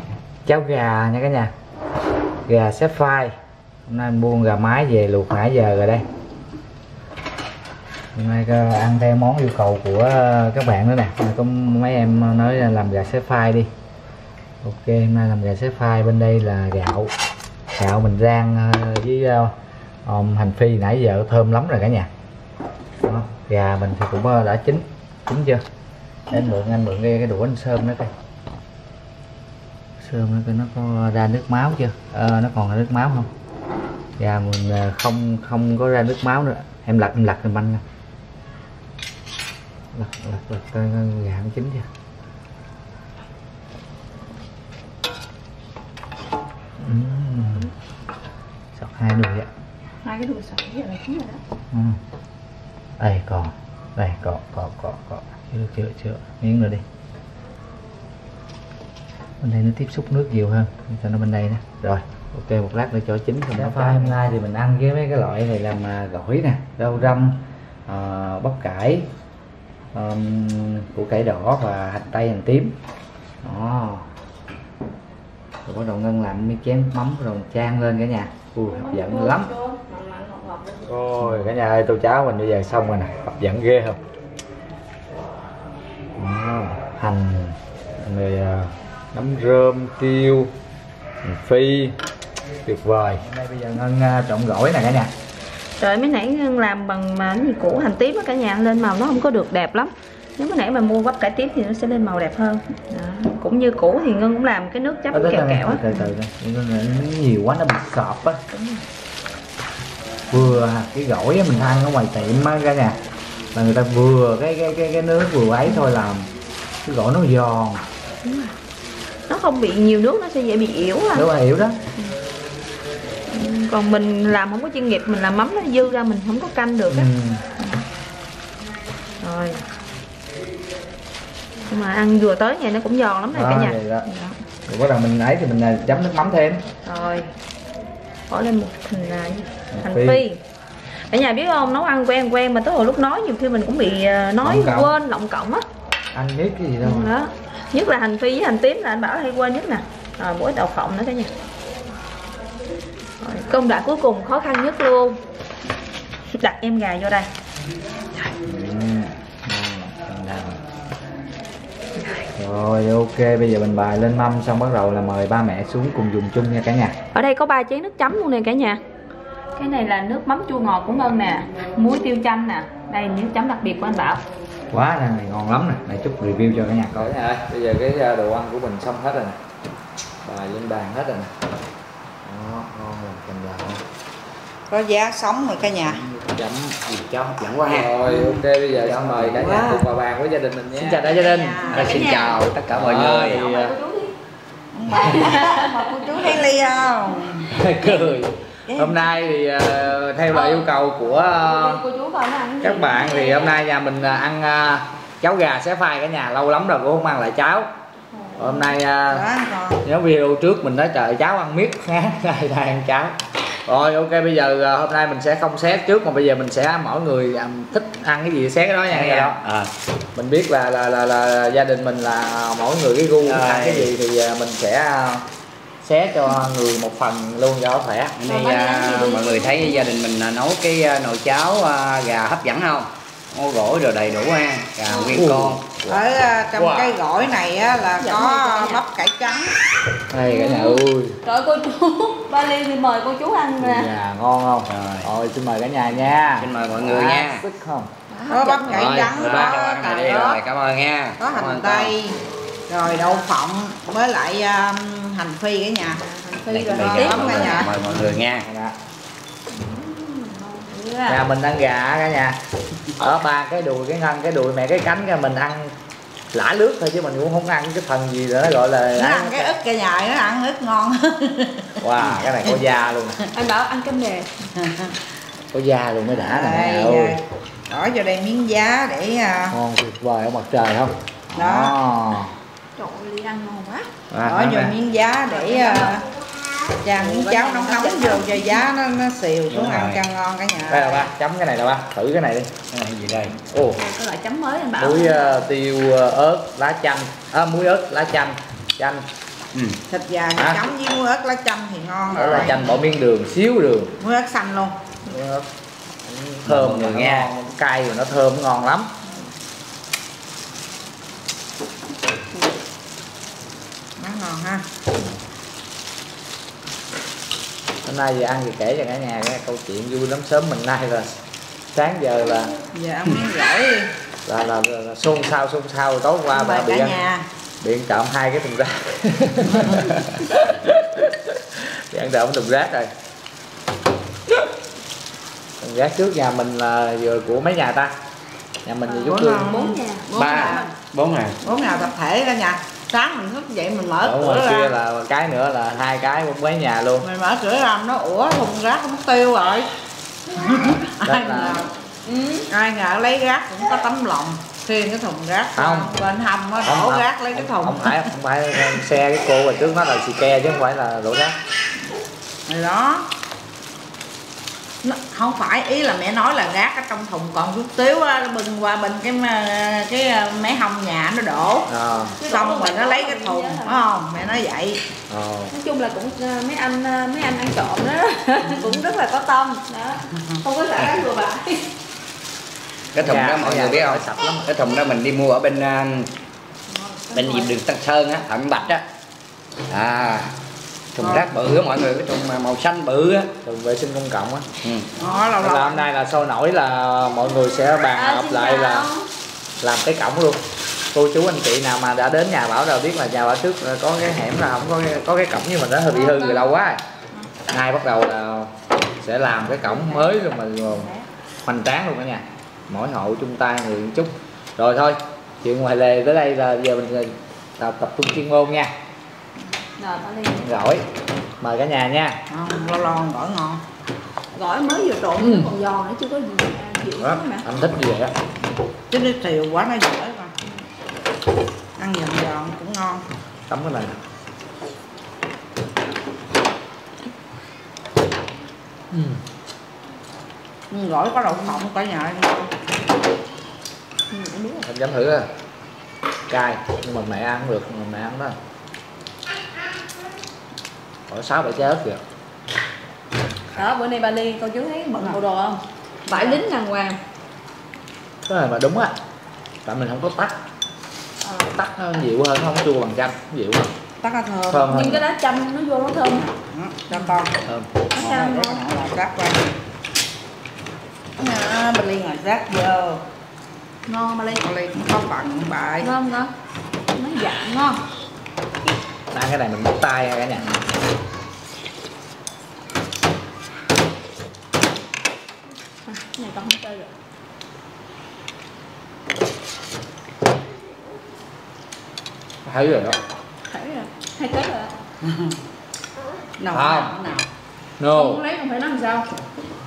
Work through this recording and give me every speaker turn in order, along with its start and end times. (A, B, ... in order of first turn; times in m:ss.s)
0:00.4-0:01.5 A
0:02.5-0:03.3 A
0:03.9-0:06.0 A
0:08.1-0:13.7 A
0:14.6-0:17.1 A
0:17.7-0:19.5 A
0:20.0-0:22.1 A
0:23.0-0:25.6 A
0:26.3-0:28.1 A
0:30.0-0:33.3 A
0:34.2-0:37.8 A
0:39.9-0:41.8 A
0:46.8-0:47.7 A
0:48.8-0:49.5 A
0:50.0-0:51.4 B
0:51.7-0:52.0 A
0:53.0-0:56.8 A
0:59.4-1:09.1 A
1:09.9-1:12.7 A
1:13.4-1:14.0 A
1:15.6-1:19.5 A
1:18.7-1:20.9 B
1:20.8-1:24.0 A
1:26.2-1:30.5 A
1:31.2-1:31.9 A
1:32.6-1:35.1 A
1:35.8-1:46.1 B
1:45.1-1:48.4 A
1:48.5-1:48.8 B
1:50.3-1:53.0 A
1:53.5-1:56.3 A
1:56.8-1:57.8 A
1:58.2-1:58.6 B
1:59.3-2:01.3 B
2:01.1-2:01.8 A
2:03.3-2:07.8 B
2:06.9-2:07.4 A
2:09.2-2:09.6 B
2:11.7-2:14.4 B
2:13.3-2:14.0 A
2:14.7-2:16.6 A
2:16.8-2:17.3 B
2:18.3-2:20.4 B
2:19.7-2:20.2 A
2:21.1-2:25.6 B
2:24.4-2:24.9 A
2:26.1-2:27.1 A
2:26.8-2:31.3 B
2:33.2-2:35.2 B
2:36.3-2:37.3 B
2:38.3-2:40.6 A
2:42.3-2:47.0 A
2:47.1-2:48.8 B
2:49.6-2:54.2 B
2:54.7-2:59.4 A
3:00.2-3:01.3 A
3:02.2-3:03.8 A
3:04.7-3:06.0 C
3:05.8-3:07.1 A
3:07.1-3:08.2 D
3:07.6-3:12.1 A
3:08.7-3:09.5 D
3:09.4-3:09.8 C
3:10.7-3:12.0 C
3:11.6-3:12.4 B
3:11.7-3:13.5 D
3:12.7-3:13.7 A
3:13.2-3:14.1 B
3:14.7-3:17.5 C
3:14.9-3:16.2 B
3:17.5-3:21.8 A
3:18.7-3:19.0 C
3:20.3-3:23.6 B
3:22.6-3:27.7 A
3:28.3-3:28.7 B
3:28.4-3:29.2 A
3:29.1-3:29.8 C
3:29.8-3:33.1 A
3:33.6-3:39.4 A
3:38.9-3:39.7 D
3:40.1-3:45.2 A
3:43.2-3:43.9 D
3:45.8-3:48.2 A
3:48.2-3:55.8 D
3:48.2-3:49.8 B
3:54.9-3:55.2 B
3:55.1-3:56.0 A
3:55.8-3:59.5 C
3:56.5-3:57.0 A
3:58.0-3:58.8 B
4:00.1-4:01.2 A
4:00.2-4:03.9 B
4:03.6-4:07.9 A
4:04.6-4:05.1 D
4:06.4-4:07.4 D
4:08.1-4:09.2 B
4:08.3-4:10.4 C
4:08.7-4:11.9 D
4:08.7-4:09.3 A
4:11.2-4:16.0 C
4:12.8-4:13.3 B
4:16.0-4:17.7 B
4:16.5-4:18.4 D
4:16.8-4:17.7 C
4:17.9-4:18.8 A
4:19.5-4:21.2 B
4:21.1-4:22.4 A
4:23.0-4:25.7 A
4:26.3-4:29.5 A
4:28.9-4:32.5 C
4:31.8-4:33.3 A
4:33.3-4:34.3 B
4:34.5-4:35.0 C
4:35.5-4:37.2 A
4:36.1-4:39.6 C
4:39.5-4:42.3 A
4:41.4-4:41.7 C
4:42.8-4:43.9 B
4:44.1-4:44.7 A
4:44.2-4:46.0 C
4:45.3-4:46.0 B
4:46.8-4:51.1 C
4:46.9-4:48.5 B
4:49.5-4:50.0 D
4:50.7-4:52.5 A
4:52.7-4:53.4 D
4:53.5-4:53.8 A
4:53.8-4:55.5 B
4:54.8-4:59.0 A
4:59.9-5:02.6 C
5:00.4-5:00.6 A
5:02.1-5:03.9 A
5:04.0-5:04.8 C
5:05.0-5:05.4 A
5:06.0-5:08.9 A
5:06.4-5:07.3 D
5:14.0-5:14.6 C
5:17.8-5:21.1 A
5:21.7-5:22.5 A
5:22.7-5:23.9 C
5:24.2-5:27.0 A
5:26.3-5:27.2 C
5:27.6-5:32.9 A
5:35.6-5:37.9 A
5:38.6-5:39.5 A
5:38.8-5:40.7 B
5:39.1-5:40.7 C
5:40.1-5:41.4 D
5:41.4-5:44.7 C
5:41.5-5:41.9 B
5:44.0-5:47.0 A
5:47.0-5:49.7 C
5:50.3-5:51.7 C
5:51.0-5:51.6 A
5:52.0-5:52.4 B
5:52.5-5:58.1 C
5:55.6-5:55.9 A
5:56.6-6:01.3 A
6:02.5-6:03.1 C
6:04.8-6:14.8 C
6:11.7-6:12.2 A
6:12.1-6:13.9 B
6:15.1-6:15.5 A
6:15.5-6:21.7 B
6:22.9-6:26.1 D
6:23.0-6:24.5 A
6:26.7-6:27.5 B
6:27.1-6:28.8 D
6:29.7-6:30.3 D
6:30.9-6:33.3 D
6:31.0-6:31.2 C
6:33.4-6:34.5 A
6:34.6-6:34.9 D
6:34.9-6:35.9 C
6:35.4-6:38.9 A
6:37.9-6:39.0 B
6:39.6-6:46.8 A
6:45.9-6:46.5 B
6:47.5-6:50.9 A
6:49.6-6:51.0 B
6:51.4-6:58.7 A
6:59.8-7:00.6 B
7:00.3-7:00.8 A
7:01.4-7:02.2 A
7:02.3-7:03.6 C
7:04.3-7:07.4 B
7:05.2-7:05.5 A
7:07.0-7:08.1 A
7:08.9-7:10.3 C
7:11.8-7:13.0 C
7:13.5-7:14.0 A
7:18.9-7:19.2 A
7:20.7-7:22.5 C
7:24.1-7:24.7 B
7:24.6-7:25.3 A
7:26.3-7:28.4 A
7:31.1-7:32.0 A
7:33.5-7:37.0 B
7:36.1-7:36.4 C
7:38.2-7:38.9 A
7:39.6-7:40.4 A
7:41.2-7:41.5 B
7:41.5-7:43.7 A
7:44.0-7:44.8 C
7:44.5-7:45.0 A
7:44.7-7:46.3 B
7:46.3-7:47.4 C
7:47.4-7:47.7 A
7:47.9-7:48.6 B
7:47.9-7:49.5 C
7:51.2-7:53.0 C
7:53.9-7:54.4 B
7:54.3-7:55.9 C
7:55.8-7:56.3 B
7:56.9-7:57.8 B
7:59.1-8:00.5 A
8:05.9-8:06.9 B
8:12.4-8:13.0 A
8:13.5-8:14.7 B
8:16.4-8:17.2 C
8:16.5-8:16.9 A
8:17.8-8:18.2 A
8:17.9-8:19.1 B